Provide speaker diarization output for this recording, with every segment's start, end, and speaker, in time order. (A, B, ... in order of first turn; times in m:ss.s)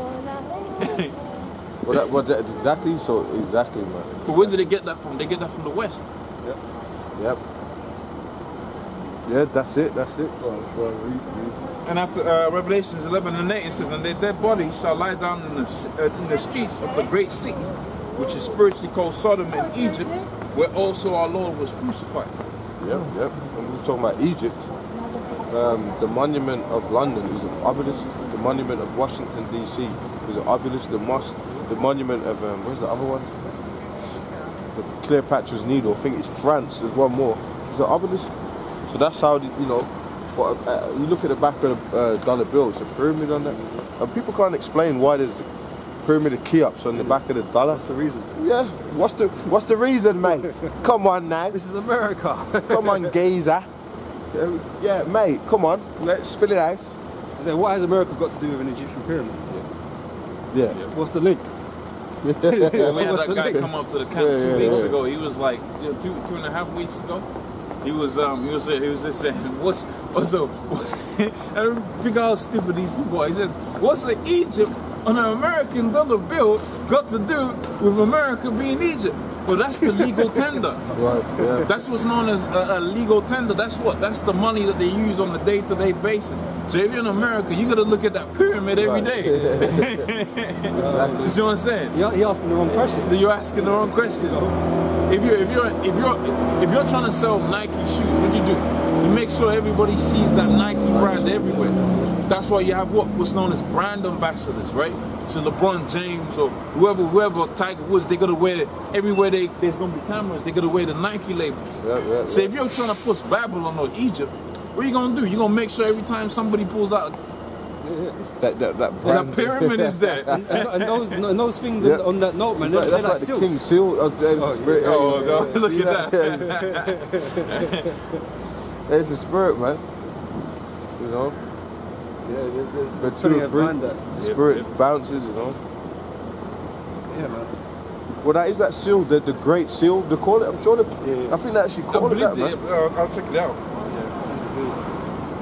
0:00.7-0:01.2 A
0:01.8-0:04.6 B
0:04.3-0:06.1 A
0:07.2-0:07.4 B
0:09.3-0:11.6 B
0:11.8-0:22.3 A
0:22.8-0:24.7 B
0:25.5-0:33.3 B
0:34.7-0:38.3 B
0:38.9-0:45.5 B
0:43.4-0:43.9 C
0:46.0-0:47.8 B
0:46.9-0:47.2 C
0:47.7-0:48.3 C
0:48.4-0:51.6 B
0:51.5-0:53.2 C
0:52.7-0:53.7 B
0:54.3-0:57.0 B
0:57.4-0:59.5 C
1:00.5-1:00.8 B
1:00.9-1:01.5 C
1:02.2-1:05.0 B
1:02.4-1:03.7 C
1:02.6-1:07.3 A
1:04.6-1:04.9 C
1:07.8-1:20.9 A
1:20.0-1:20.5 C
1:20.9-1:21.7 B
1:21.6-1:32.0 A
1:28.8-1:30.1 B
1:29.2-1:29.8 C
1:30.7-1:31.3 C
1:30.7-1:31.4 B
1:31.9-1:33.1 C
1:32.7-1:34.4 A
1:34.3-1:34.6 C
1:35.1-1:57.2 A
1:41.0-1:41.8 B
1:41.6-1:41.9 C
1:51.8-1:52.5 B
1:57.8-1:58.2 C
1:58.3-2:00.6 B
1:59.0-2:01.2 A
2:00.3-2:03.6 C
2:01.8-2:02.1 B
2:02.6-2:06.6 B
2:04.4-2:05.7 C
2:04.8-2:08.0 A
2:06.3-2:08.2 C
2:08.9-2:09.8 B
2:11.0-2:11.4 B
2:12.2-2:14.0 C
2:13.0-2:15.6 B
2:14.2-2:14.6 A
2:17.1-2:17.5 C
2:18.2-2:22.6 B
2:21.0-2:21.4 C
2:21.9-2:24.1 A
2:24.3-2:24.8 C